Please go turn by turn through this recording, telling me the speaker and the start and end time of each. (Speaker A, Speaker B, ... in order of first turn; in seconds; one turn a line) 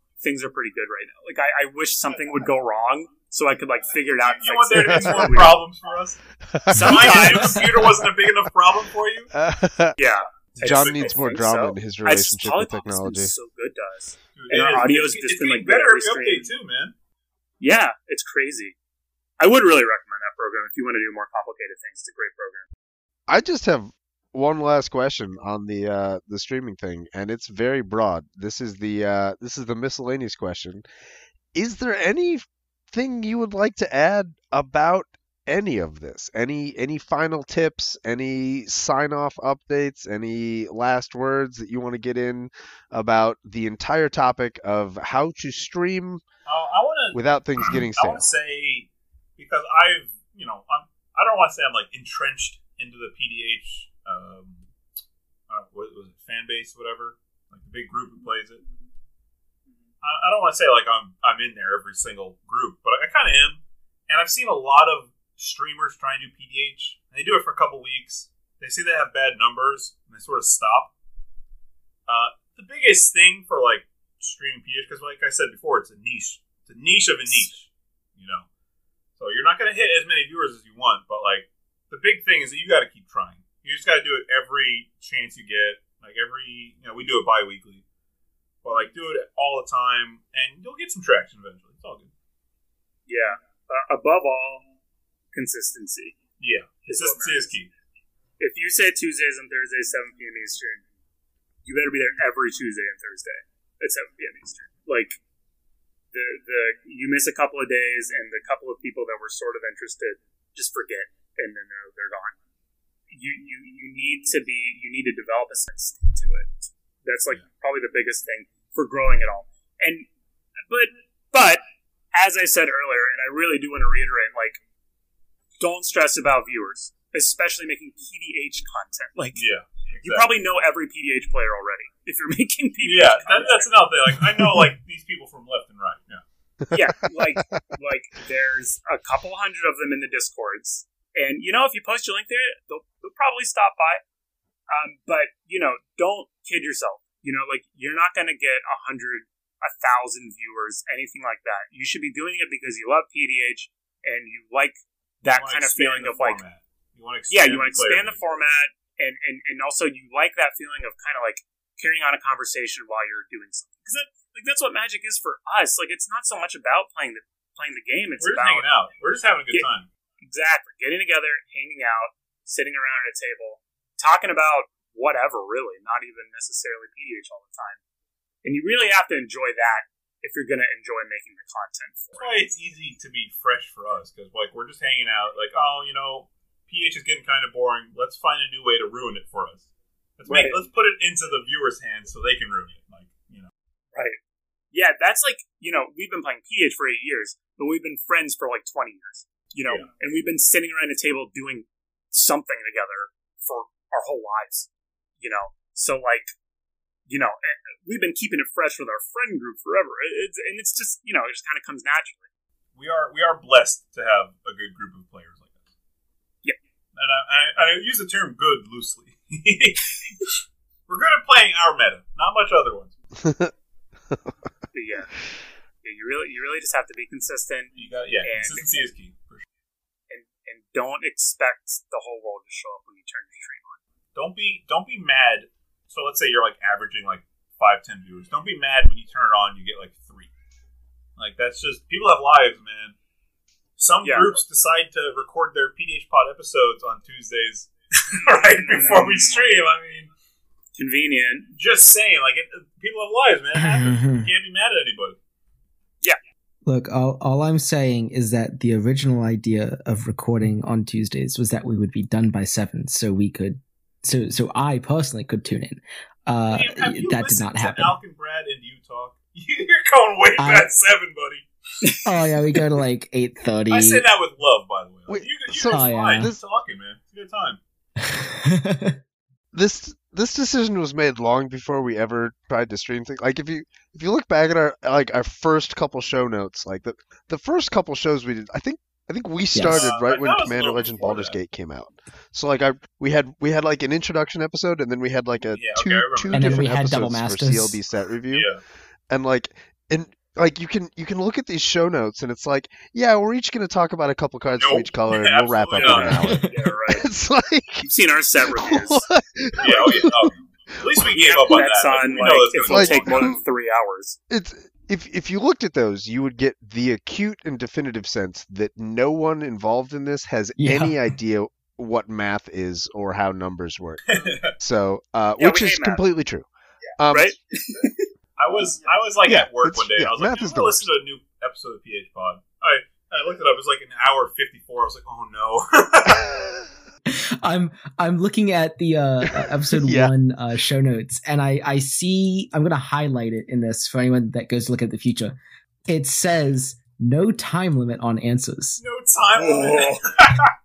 Speaker A: 0.2-5.6
Speaker B: 4.2-9.3
Speaker C: 5.1-5.5
Speaker C: 6.5-8.1
Speaker A: 6.7-7.7
Speaker C: 9.3-10.0
Speaker A: 10.0-16.5
Speaker B: 10.6-11.2
Speaker C: 10.6-13.3
Speaker B: 14.4-16.9
Speaker A: 17.6-18.8
Speaker A: 19.4-22.7
Speaker C: 23.3-30.8
Speaker C: 31.5-46.2
Speaker B: 46.5-54.6
Speaker C: 47.1-48.3
Speaker B: 55.5-58.6
Speaker B: 60.0-70.9
Speaker B: 72.1-78.5
Speaker B: 79.2-87.8
Speaker B: 88.6-92.1
Speaker A: 93.1-94.7
Speaker A: 95.3-96.2
Speaker B: 96.4-97.7
Speaker A: 96.8-97.5
Speaker A: 98.4-100.8
Speaker A: 101.7-105.2
Speaker A: 106.1-112.4
Speaker A: 113.1-120.1
Speaker A: 120.7-121.6
Speaker A: 122.1-124.6
Speaker A: 125.6-129.4
Speaker B: 129.3-130.3
Speaker A: 130.0-133.9
Speaker B: 132.8-136.2
Speaker A: 136.7-144.0
Speaker A: 144.7-156.4
Speaker B: 155.3-158.2
Speaker A: 157.3-168.7
Speaker B: 168.2-169.9
Speaker A: 170.2-177.8
Speaker A: 178.4-182.3
Speaker B: 182.1-189.7
Speaker B: 190.2-193.5
Speaker A: 190.3-190.6
Speaker A: 193.9-194.2
Speaker A: 194.7-204.7
Speaker A: 205.2-206.3
Speaker A: 207.1-212.3
Speaker B: 212.8-215.7
Speaker B: 216.9-222.9
Speaker C: 223.2-223.5
Speaker A: 224.7-225.1
Speaker A: 225.8-228.8
Speaker B: 227.8-229.4
Speaker A: 230.1-233.8
Speaker B: 234.2-240.3
Speaker B: 241.2-243.0
Speaker B: 243.8-250.1
Speaker A: 244.0-244.4
Speaker A: 248.6-249.3
Speaker A: 250.8-251.5
Speaker B: 251.6-255.2
Speaker D: 253.6-254.3
Speaker D: 256.7-268.0
Speaker B: 266.5-271.5
Speaker D: 270.4-270.7
Speaker D: 272.0-274.0
Speaker B: 273.7-277.6
Speaker C: 275.1-276.4
Speaker D: 275.7-276.3
Speaker D: 278.0-279.0
Speaker C: 279.5-298.5
Speaker D: 289.5-289.9
Speaker B: 289.6-291.4
Speaker B: 295.5-296.8
Speaker D: 296.3-297.8
Speaker B: 298.3-298.6
Speaker C: 299.1-307.9
Speaker B: 304.5-306.4
Speaker A: 305.8-307.1
Speaker D: 306.1-306.7
Speaker A: 307.8-309.1
Speaker C: 308.4-311.1
Speaker B: 309.6-313.4
Speaker A: 311.1-314.2
Speaker C: 312.6-313.4
Speaker C: 314.3-326.5
Speaker D: 320.6-321.1
Speaker B: 324.1-324.6
Speaker A: 325.4-326.0
Speaker C: 327.0-327.4
Speaker A: 327.1-328.1
Speaker B: 328.4-336.5
Speaker C: 329.3-330.9
Speaker D: 337.1-348.8
Speaker C: 339.2-340.1
Speaker B: 348.8-350.5
Speaker A: 349.4-350.0